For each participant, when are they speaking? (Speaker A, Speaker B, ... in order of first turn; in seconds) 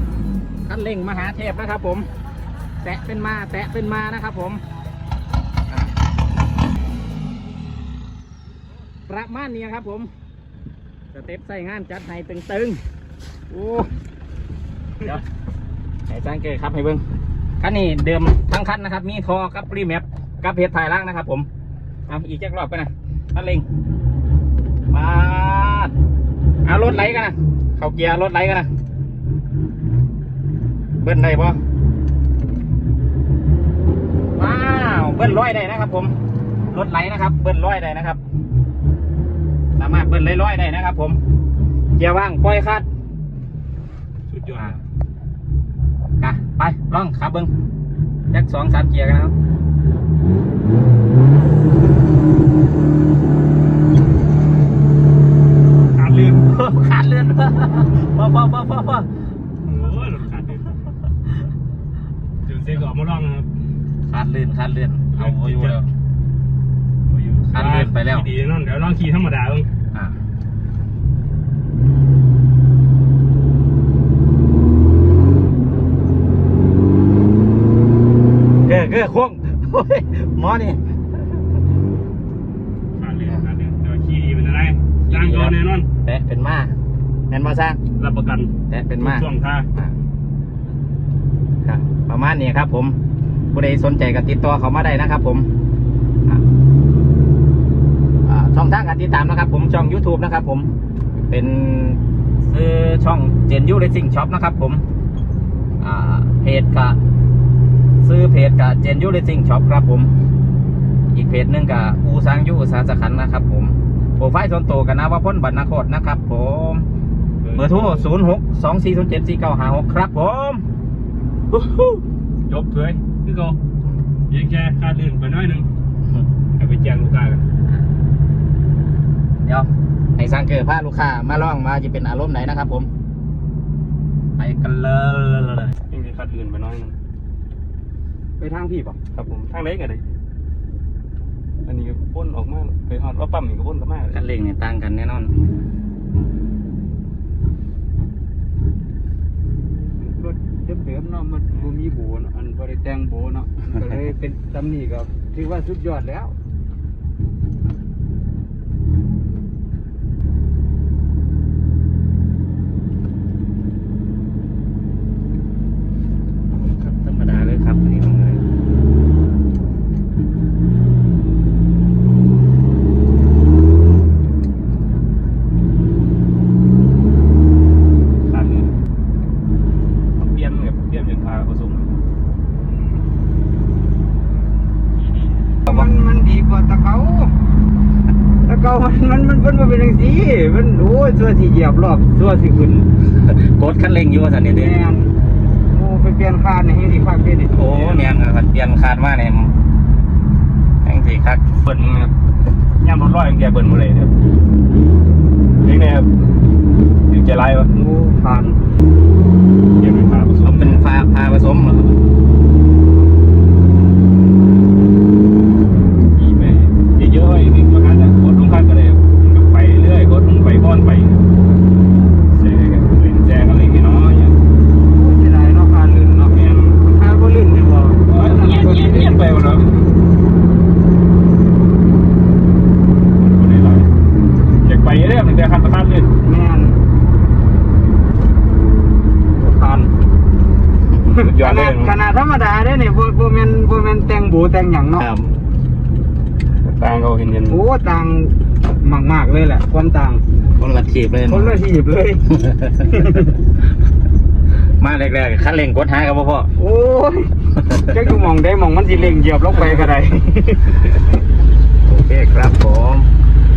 Speaker A: 0.7-2.1, 2.8-4.6, 9.1-10.1, 11.1-12.8, 13.5-13.9, 16.1-17.0, 17.6-21.5, 22.1-23.7, 24.9-25.9, 26.6-28.7, 31.0-31.6, 34.4-36.1, 36.7-38.2, 39.8-41.2, 42.0-42.9, 46.2-47.5, 48.3-49.3, 56.5-59.1, 64.1-65.9, 67.5-68.3, 78.7-80.8, 85.1-86.7, 87.3-87.8, 88.7-89.9, 91.7-93.0, 93.5-95.5, 98.3-100.7, 101.3-104.8, 105.8-107.0, 108.0-110.1, 111.1-116.9, 117.6-120.6, 129.4-132.9, 134.4-135.7, 144.1-145.3, 166.5-168.4, 193.2-194.8, 197.5-199.5, 200.8-201.4, 210.4-212.0, 245.0-245.3, 250.6-251.6, 254.8-256.5, 261.9-263.1
Speaker B: 44.3-44.8, 55.9-56.5, 59.6-60.8, 62.4-63.5, 65.2-65.8, 67.1-69.7, 83.0-85.9, 88.0-89.7, 117.4-118.1, 121.5-123.6, 124.3-125.7, 126.6-127.4, 135.9-137.0, 139.1-140.0, 141.7-144.2, 178.3-178.7, 180.2-182.0, 201.6-202.1, 202.8-204.1, 205.6-206.1, 207.1-207.7, 209.8-210.9, 216.1-221.2, 222.3-224.4, 226.2-226.8, 228.1-229.9, 233.2-233.9, 234.6-236.1, 241.1-242.0, 246.6-247.7
Speaker C: 138.4-139.0, 150.0-156.3, 185.7-187.3, 188.4-192.9, 194.5-195.1, 195.7-197.7, 207.7-208.6, 224.9-229.2, 236.2-236.8, 239.4-239.9, 241.1-245.1, 247.5-250.2, 251.3-253.3, 256.6-260.9